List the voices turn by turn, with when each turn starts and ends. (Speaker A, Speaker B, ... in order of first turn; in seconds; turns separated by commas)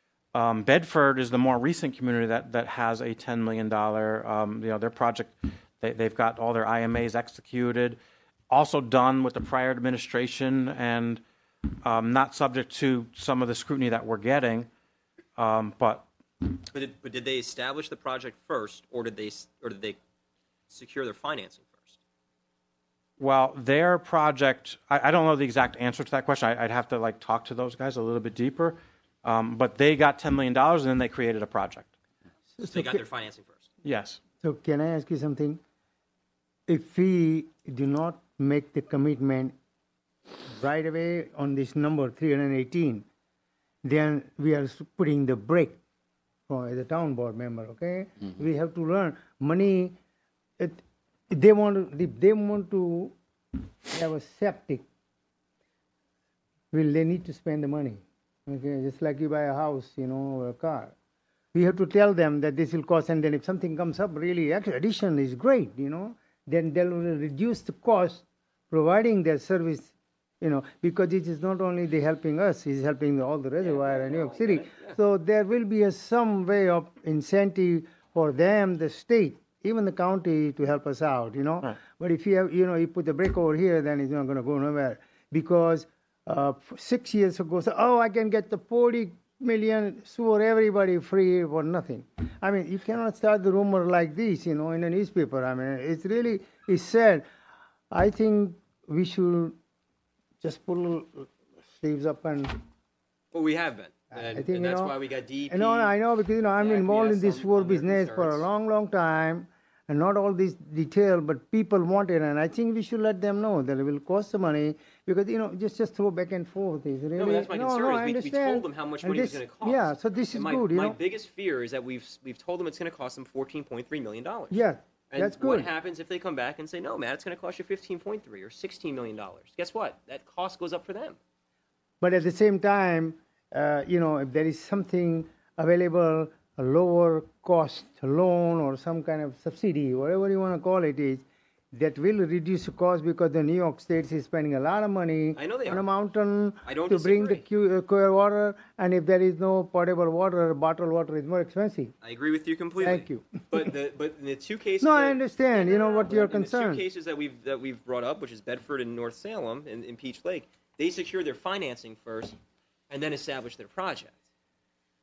Speaker A: 0.3-8.0, Speaker A: 8.5-11.2, Speaker A: 11.8-14.7, Speaker A: 15.4-16.1, Speaker B: 16.7-20.0, Speaker B: 20.7-22.0, Speaker A: 23.2-31.9, Speaker C: 32.6-33.0, Speaker B: 32.6-33.7, Speaker A: 33.8-34.2, Speaker C: 34.4-35.6, Speaker C: 36.7-39.5, Speaker C: 40.5-43.0, Speaker C: 43.8-45.8, Speaker C: 46.5-50.0, Speaker C: 50.6-53.1, Speaker C: 53.9-54.9, Speaker C: 56.7-60.9, Speaker C: 61.5-97.2, Speaker B: 73.6-75.0, Speaker C: 97.9-99.5, Speaker C: 100.4-102.6, Speaker B: 103.3-106.0, Speaker C: 104.1-105.0, Speaker C: 105.5-121.0, Speaker B: 106.6-108.5, Speaker B: 117.2-131.2, Speaker C: 124.5-125.7, Speaker C: 132.0-151.9, Speaker B: 145.4-145.8, Speaker B: 146.7-147.4, Speaker B: 152.0-162.4, Speaker C: 152.8-153.7, Speaker C: 154.8-156.8, Speaker B: 162.9-164.2